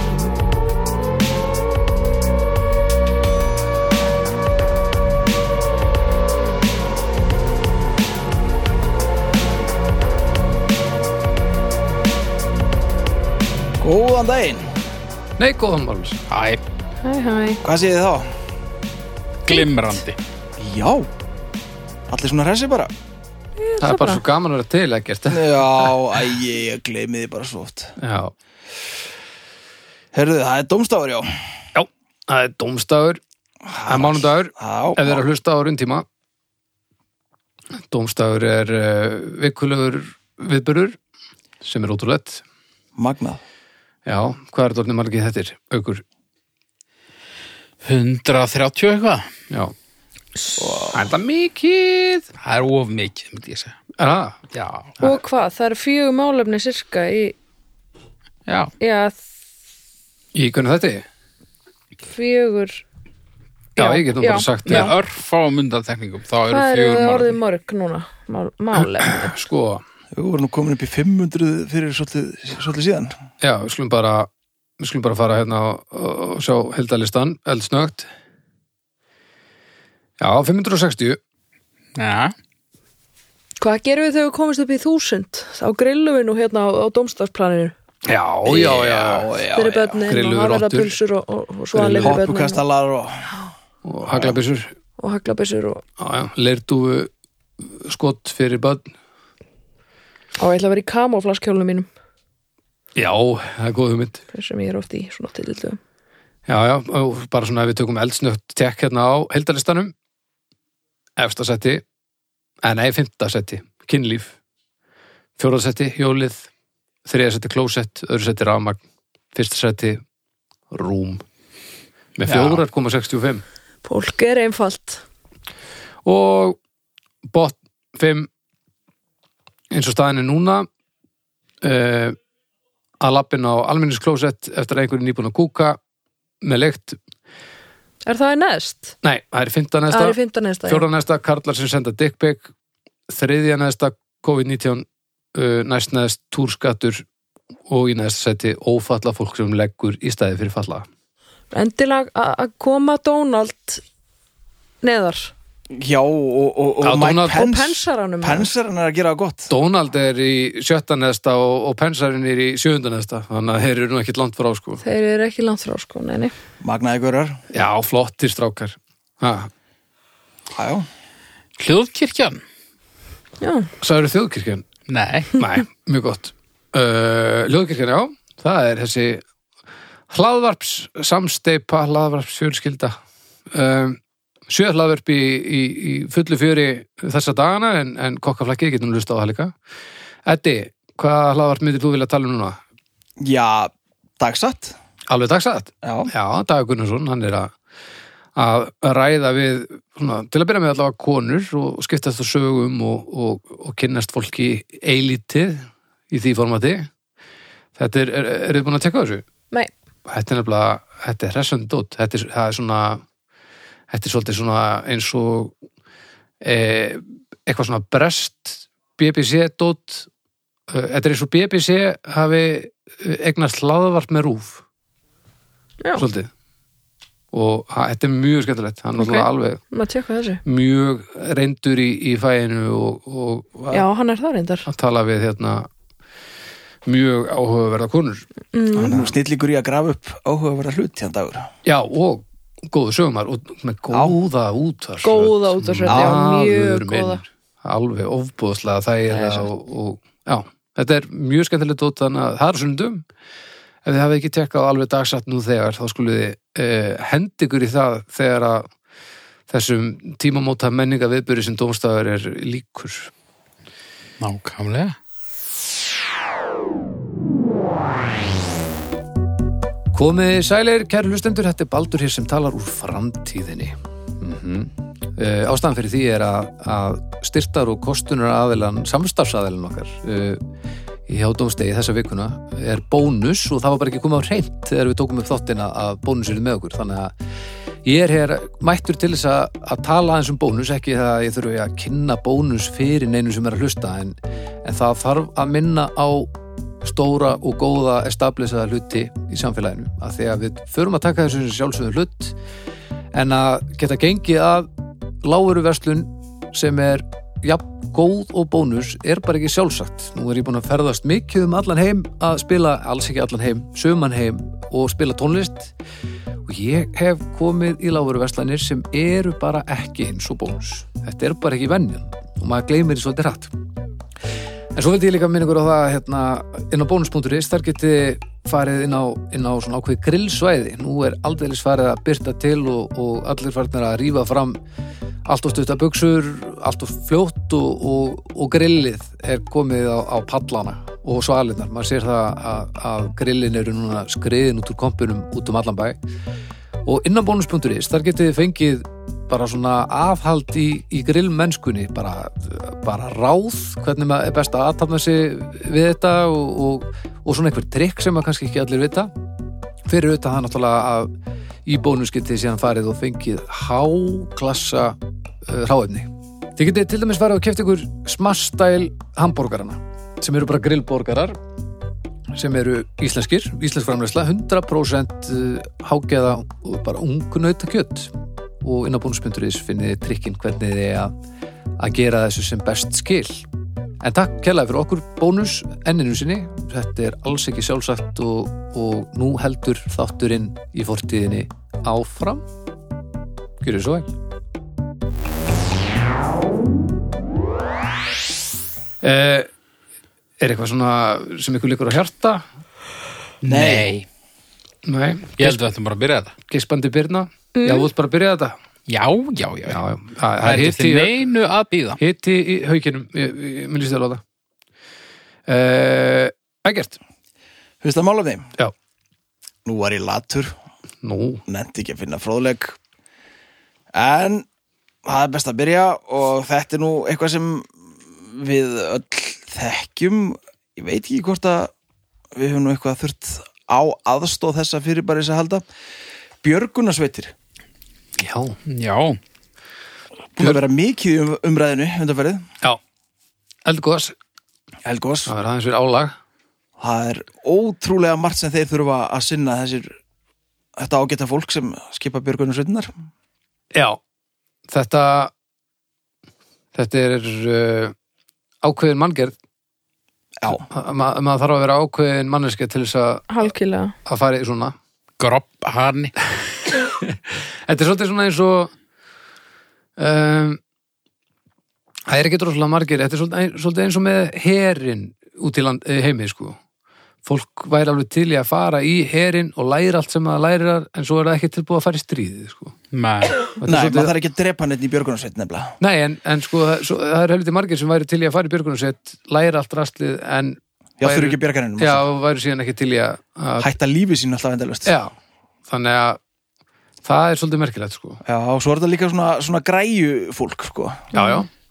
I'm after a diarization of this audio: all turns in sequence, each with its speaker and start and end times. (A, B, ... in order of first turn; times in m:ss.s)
0:13.8-0:14.7 A
0:15.4-0:16.2 B
0:16.3-0:16.6 C
0:17.0-0:17.6 D
0:17.6-0:18.3 A
0:19.4-0:20.2 C
0:20.6-0:21.1 A
0:22.1-0:22.9 A
0:23.6-0:24.2 D
0:23.8-0:25.9 B
0:25.3-0:27.9 A
0:28.0-0:28.3 B
0:30.1-0:31.3 A
0:31.7-0:33.2 B
0:33.7-0:35.2 A
0:33.8-0:36.0 B
0:37.7-0:41.0 B
0:41.6-0:42.4 B
0:43.0-0:43.4 A
0:44.0-0:46.0 B
0:47.8-0:49.3 C
0:50.6-0:51.0 A
0:50.9-0:52.3 B
0:52.4-0:53.8 C
0:54.0-0:54.4 B
0:54.5-0:55.0 C
0:55.0-0:57.3 D
0:58.8-0:59.2 D
1:00.3-1:01.0 B
1:02.1-1:02.8 D
1:03.8-1:04.9 B
1:03.8-1:04.9 D
1:04.7-1:07.4 C
1:06.5-1:09.4 D
1:09.0-1:09.8 B
1:10.1-1:13.1 A
1:13.4-1:18.1 B
1:20.2-1:21.2 B
1:22.0-1:22.3 C
1:23.6-1:27.7 D
1:28.0-1:29.3 B
1:28.4-1:30.0 A
1:29.5-1:32.6 D
1:30.0-1:30.9 B
1:31.7-1:32.2 B
1:32.0-1:33.3 A
1:33.8-1:34.7 B
1:34.1-1:34.4 A
1:35.0-1:35.8 D
1:36.0-1:37.1 B
1:37.6-1:38.9 B
1:40.4-1:41.9 D
1:42.9-1:44.2 B
1:44.3-1:45.8 D
1:46.5-1:49.9 B
1:51.2-1:51.8 B
1:52.6-1:54.4 B
1:55.4-1:56.5 B
1:57.0-1:58.8 B
1:59.3-2:00.0 B
2:00.7-2:01.2 B
2:02.2-2:03.4 B
2:02.3-2:02.6 C
2:03.8-2:05.0 D
2:06.0-2:06.6 B
2:07.3-2:08.3 B
2:09.7-2:10.7 B
2:11.6-2:12.2 B
2:13.0-2:15.8 B
2:16.4-2:17.0 B
2:18.0-2:18.9 D
2:19.0-2:22.5 B
2:19.9-2:20.8 D
2:23.1-2:27.0 B
2:27.7-2:30.9 B
2:31.5-2:33.8 D
2:34.8-2:35.3 D
2:35.7-2:39.5 A
2:36.8-2:37.5 B
2:37.3-2:38.5 D
2:39.5-2:44.8 B
2:44.8-2:46.3 D
2:46.6-2:47.4 A
2:47.5-2:49.5 B
2:50.5-2:50.9 A
2:51.6-2:52.4 C
2:53.4-2:53.7 D
2:53.8-2:54.6 B
2:54.9-2:55.3 C
2:55.3-2:59.2 B
3:00.1-3:02.9 B
3:03.5-3:09.5 B
3:10.2-3:12.6 B
3:13.2-3:14.7 A
3:15.1-3:17.5 B
3:15.8-3:16.1 A
3:18.3-3:26.9 B
3:27.8-3:29.2 B
3:30.1-3:33.0 B
3:33.9-3:35.5 B
3:36.4-3:40.1 B
3:40.7-3:44.6 B
3:46.0-3:46.3 B
3:47.3-3:49.6 B
3:48.9-3:50.4 D
3:50.4-3:53.8 B
3:53.7-3:54.7 D
3:54.7-3:55.7 B
3:56.8-3:58.3 B
3:58.5-3:59.1 D
3:58.8-4:01.5 A
4:01.6-4:13.0 B
4:03.9-4:04.2 A
4:05.0-4:07.2 D
4:05.9-4:06.2 A
4:09.1-4:09.5 D
4:13.8-4:18.7 B
4:19.5-4:23.1 B
4:24.2-4:24.9 C
4:29.9-4:40.4 B
4:41.1-4:47.1 B
4:47.8-5:02.4 B
5:03.1-5:04.7 B
5:05.2-5:15.7 B
5:16.4-5:23.5 B
5:24.7-5:34.6 B
5:35.2-5:46.0 B
5:46.8-5:59.1 B
5:59.9-6:01.1 B
6:01.6-6:11.4 B
6:12.3-6:21.1 B
6:21.8-6:23.5 B
6:24.0-6:32.4 B
6:33.6-6:34.1 B
6:39.0-6:39.5 B
6:40.4-6:42.4 B
6:43.4-6:44.0 C
6:43.5-6:43.9 A
6:44.8-6:45.6 B
6:45.4-6:46.3 C
6:46.5-6:48.5 B
6:47.5-6:47.9 D
6:48.9-6:49.8 C
6:49.7-6:51.1 B
6:50.4-6:52.0 C
6:52.0-6:54.2 B
6:55.5-6:57.0 B
6:57.8-6:58.5 A
6:59.6-7:00.5 A
7:01.0-7:01.4 B
7:01.5-7:02.8 A
7:03.9-7:04.4 A
7:05.0-7:11.7 A
7:12.3-7:15.6 A
7:16.4-7:17.3 A
7:18.2-7:18.6 B
7:18.7-7:19.2 C
7:20.3-7:22.4 A
7:23.6-7:24.1 B
7:24.8-7:25.3 A
7:25.2-7:26.2 B
7:26.8-7:30.0 A
7:30.8-7:32.9 A
7:33.7-7:34.0 B
7:34.7-7:35.3 B
7:36.7-7:37.9 B
7:38.6-7:39.3 B
7:40.5-7:43.5 B
7:43.3-7:43.9 D
7:44.0-7:44.7 B
7:45.2-7:46.1 C
7:46.7-7:48.7 B
7:50.0-7:50.6 B
7:52.1-7:56.6 B
7:57.2-8:02.7 B
8:02.9-8:03.5 C
8:03.6-8:04.1 B
8:03.6-8:05.8 A
8:05.8-8:13.7 B
8:11.0-8:12.0 A
8:13.6-8:14.9 A
8:14.8-8:15.1 B
8:15.7-8:16.2 B
8:17.0-8:18.2 B
8:18.2-8:21.1 A
8:21.1-8:21.4 D
8:21.1-8:21.5 B